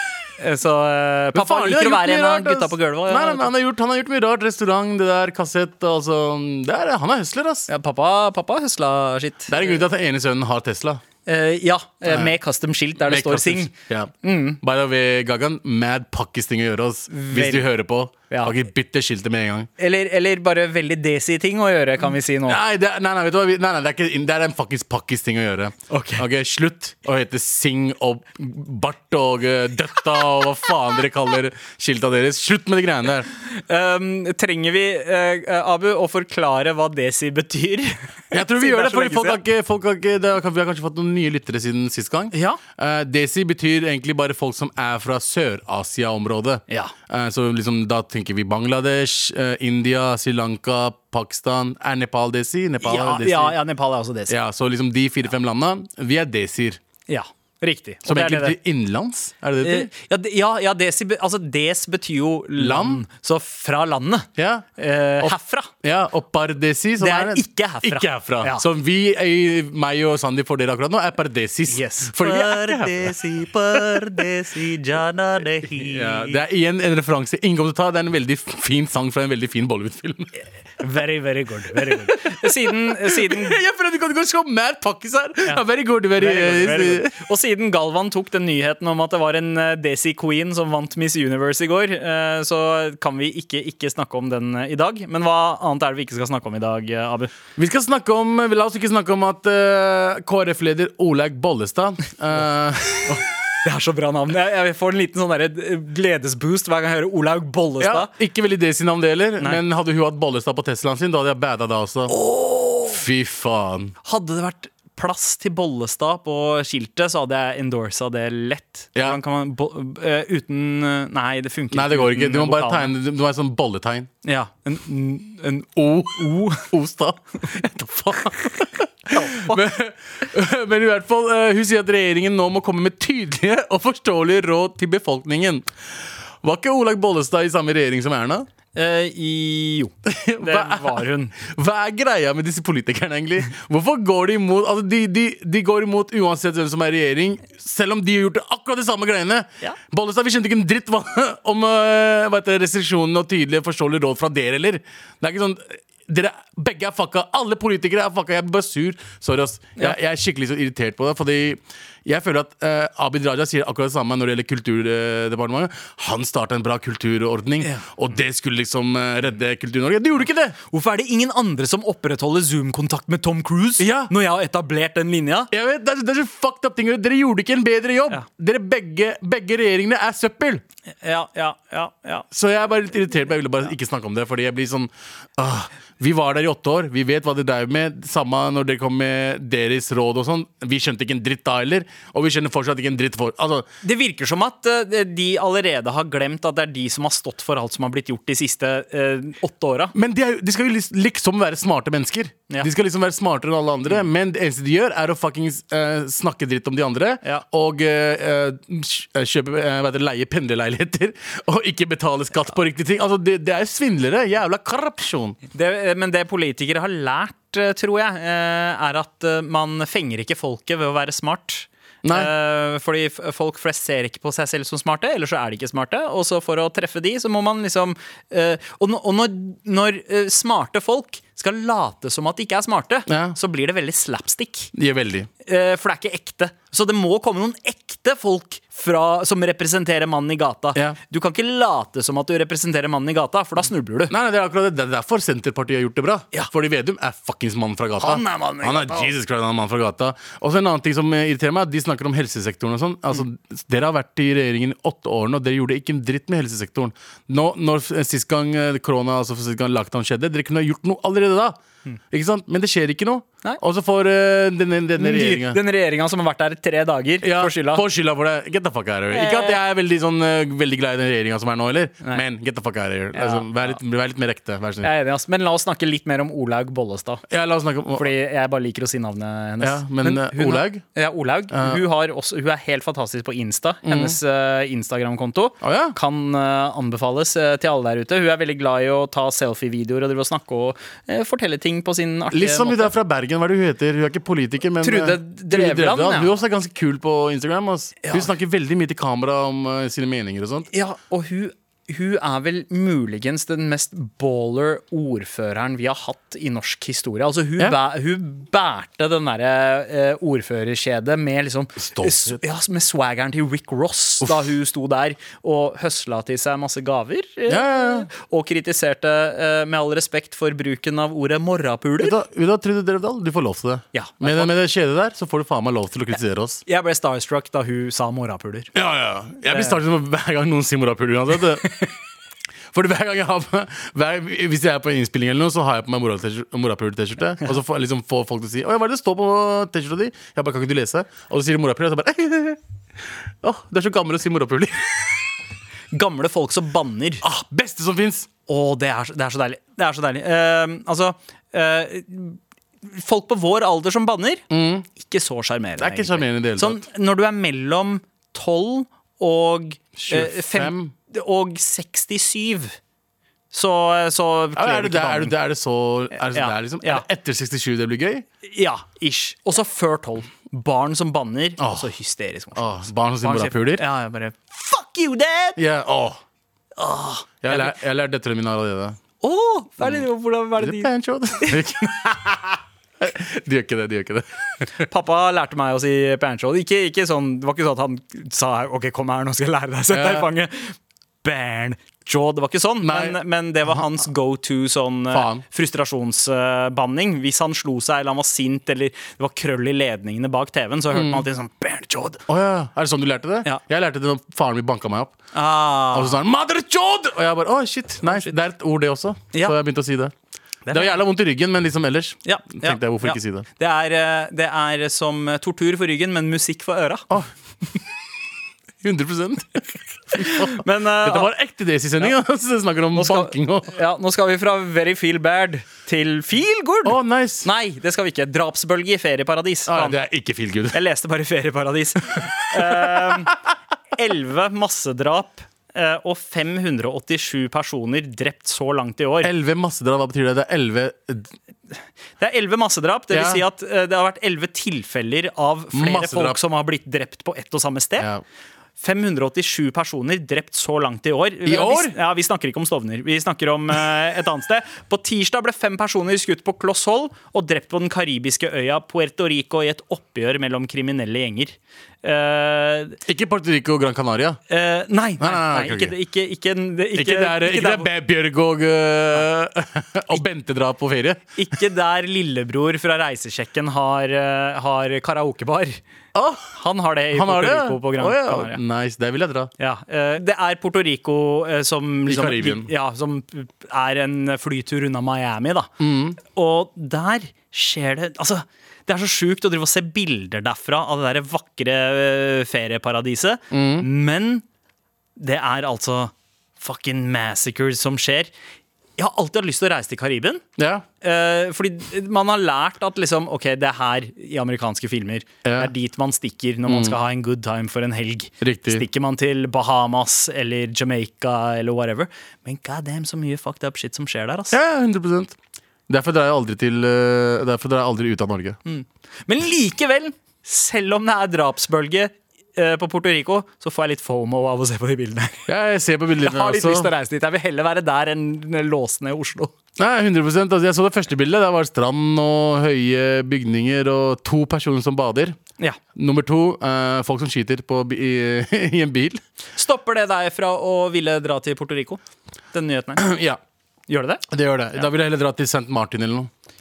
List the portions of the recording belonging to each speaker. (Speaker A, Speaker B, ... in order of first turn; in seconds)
Speaker A: 0.4-3.5, 7.7-9.8, 11.2-13.7, 14.2-14.6, 17.1-17.7, 18.3-18.6, 19.8-22.6, 25.9-26.2, 33.5-39.4, 42.3-42.6, 52.8-54.4, 57.1-58.6, 59.6-65.7, 67.0-68.7, 71.7-76.4, 80.8-83.6, 86.2-97.3, 103.0-108.1, 112.1-113.0, 114.0-122.9, 124.2-126.7, 129.1-129.6, 138.8-141.3, 170.7-175.5, 181.0-182.3, 193.8-199.9, 215.5-234.7, 235.4-244.1, 248.0-249.1, 265.0-267.8, 269.1-269.6, 273.1-273.8, 274.8-277.2, 278.0-292.9, 294.8-296.3, 298.0-298.3, 300.7-322.1, 323.9-324.5, 326.7-328.7, 329.4-329.8, 345.9-347.2, 348.5-354.4, 354.9-362.8, 363.5-365.4, 366.1-367.1, 368.4-372.6, 373.2-375.6, 376.8-377.8, 379.2-382.5, 384.8-402.2, 405.3-406.2, 408.0-408.3, 410.7-411.0, 412.2-417.1, 420.2-421.3, 422.9-430.0, 430.7-433.4, 434.0-439.3, 442.2-448.1, 448.8-463.0, 464.5-467.9, 471.4-475.8, 476.6-478.6, 479.6-494.4, 495.2-498.3, 499.0-500.4, 501.0-514.6, 518.7-525.5, 526.2-529.5, 539.6-542.0, 542.5-543.1, 543.9-544.3
Speaker B: 1.3-7.7, 9.5-11.0, 12.1-12.3, 13.0-19.7, 22.5-33.3, 38.3-53.6, 54.3-56.8, 58.0-59.9, 62.6-63.0, 64.4-64.7, 65.2-74.3, 75.6-80.3, 81.8-87.2, 97.6-103.2, 107.8-112.1, 112.9-113.9, 121.7-124.1, 125.8-135.7, 136.4-138.5, 140.1-170.6, 173.8-174.1, 175.5-180.6, 182.3-193.7, 199.9-215.4, 222.0-222.3, 233.1-233.4, 234.7-235.3, 244.1-261.6, 262.1-265.6, 267.2-274.9, 277.3-278.1, 279.6-280.8, 281.5-281.8, 283.9-284.2, 285.6-286.0, 292.3-300.7, 311.8-312.4, 317.5-318.1, 322.0-326.6, 328.7-331.9, 332.7-342.6, 343.4-345.2, 347.2-348.3, 354.5-354.9, 355.8-356.8, 360.0-360.9, 364.6-368.3, 371.6-371.9, 372.6-373.9, 375.6-376.2, 377.4-379.0, 380.6-382.1, 383.0-384.6, 389.9-390.3, 392.8-393.2, 395.1-395.4, 400.9-401.2, 402.3-405.2, 405.9-410.1, 410.7-413.5, 418.8-423.8, 426.9-427.5, 429.7-430.8, 432.1-433.4, 439.2-441.3, 443.1-443.4, 445.7-446.4, 448.0-448.2, 451.5-452.0, 463.1-464.4, 465.2-466.0, 466.9-471.3, 476.1-476.5, 477.1-479.5, 482.1-482.7, 485.8-486.2, 493.5-493.9, 500.6-500.9, 505.4-505.7, 506.7-507.0, 508.4-508.9, 514.5-515.4, 515.9-518.6, 525.5-526.9, 529.8-535.4, 536.0-539.2, 543.0-543.4, 544.3-546.3